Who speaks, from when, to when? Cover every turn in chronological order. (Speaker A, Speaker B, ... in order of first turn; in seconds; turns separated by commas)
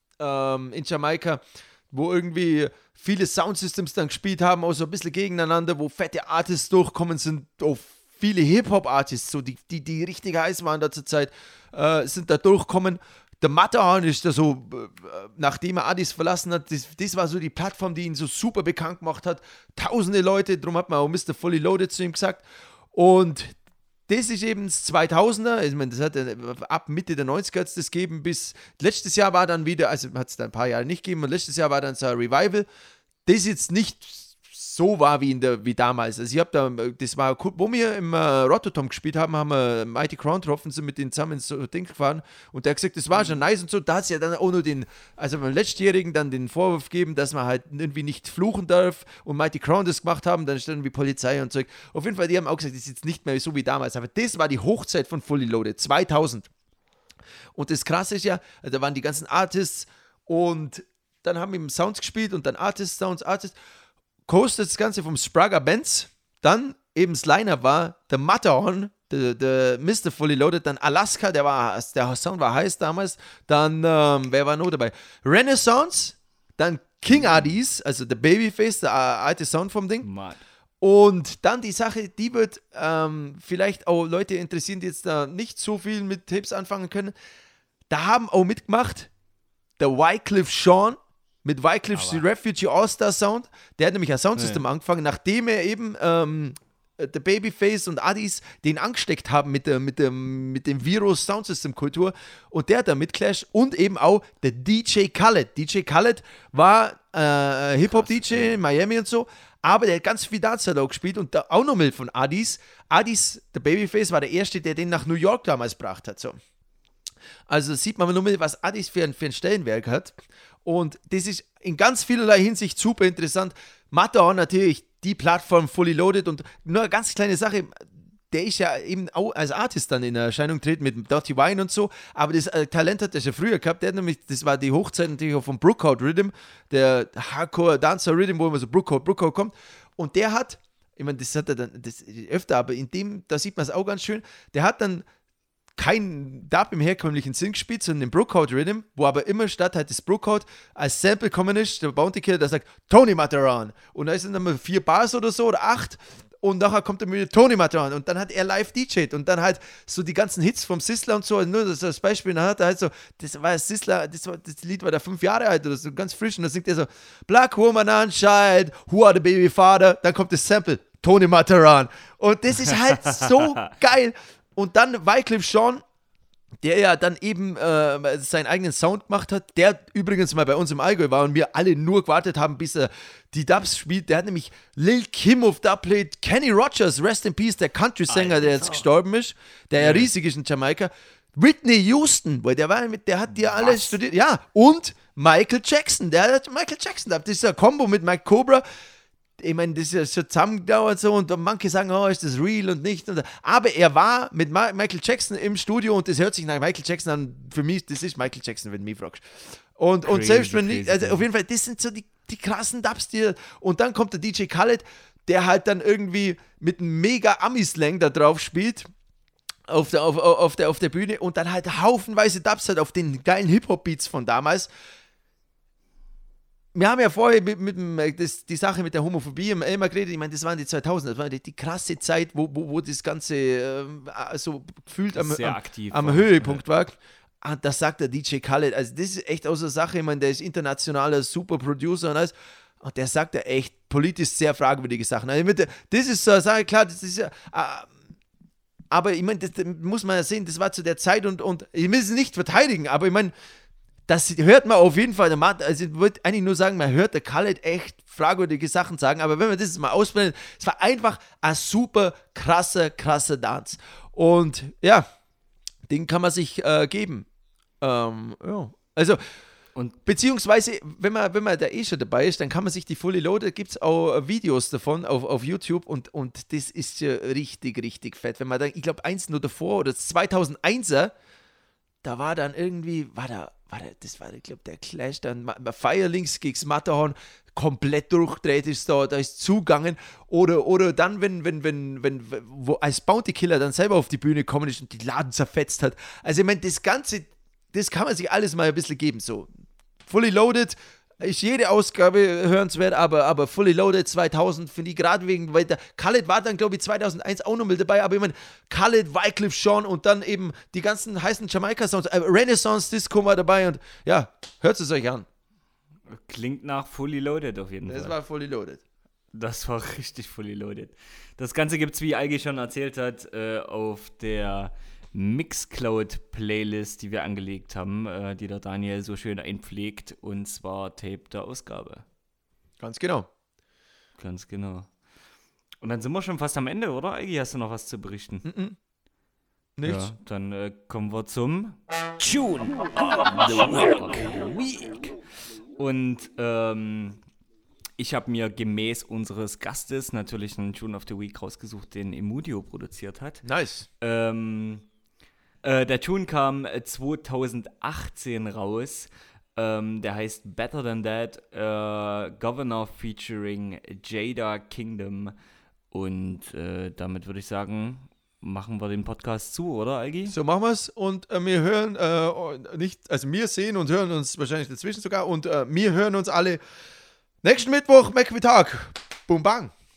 Speaker A: 0.2-23.6, Speaker A: 24.1-32.7, Speaker A: 33.3-56.5, Speaker A: 57.5-63.6, Speaker A: 64.3-80.1, Speaker B: 80.0-80.4, Speaker A: 80.8-87.1, Speaker A: 87.9-89.1, Speaker A: 89.8-116.4, Speaker B: 91.9-92.3, Speaker B: 94.4-94.6, Speaker B: 107.9-108.6, Speaker A: 117.5-145.1, Speaker A: 145.8-175.8, Speaker A: 176.6-198.6, Speaker B: 188.1-188.9, Speaker B: 189.8-190.1, Speaker B: 193.3-193.9, Speaker A: 199.4-218.9, Speaker B: 210.1-211.3, Speaker A: 219.7-224.7, Speaker A: 226.7-247.9, Speaker B: 235.2-236.6, Speaker A: 248.9-253.3, Speaker A: 254.1-265.1, Speaker A: 265.9-267.3, Speaker A: 267.8-269.2, Speaker A: 270.1-281.1, Speaker A: 282.0-299.5, Speaker A: 300.0-315.3, Speaker B: 316.1-318.2, Speaker A: 317.9-318.8, Speaker B: 319.3-332.1, Speaker A: 332.8-333.3, Speaker B: 334.2-334.9, Speaker B: 335.8-338.5, Speaker A: 338.4-338.8, Speaker A: 339.8-340.1, Speaker B: 339.9-341.8, Speaker A: 342.2-345.1, Speaker B: 342.9-344.8, Speaker B: 345.8-347.2, Speaker B: 348.0-353.4, Speaker A: 353.4-353.9, Speaker B: 354.0-354.9, Speaker B: 355.6-365.4, Speaker B: 365.9-370.4, Speaker A: 370.3-376.6, Speaker A: 377.4-379.7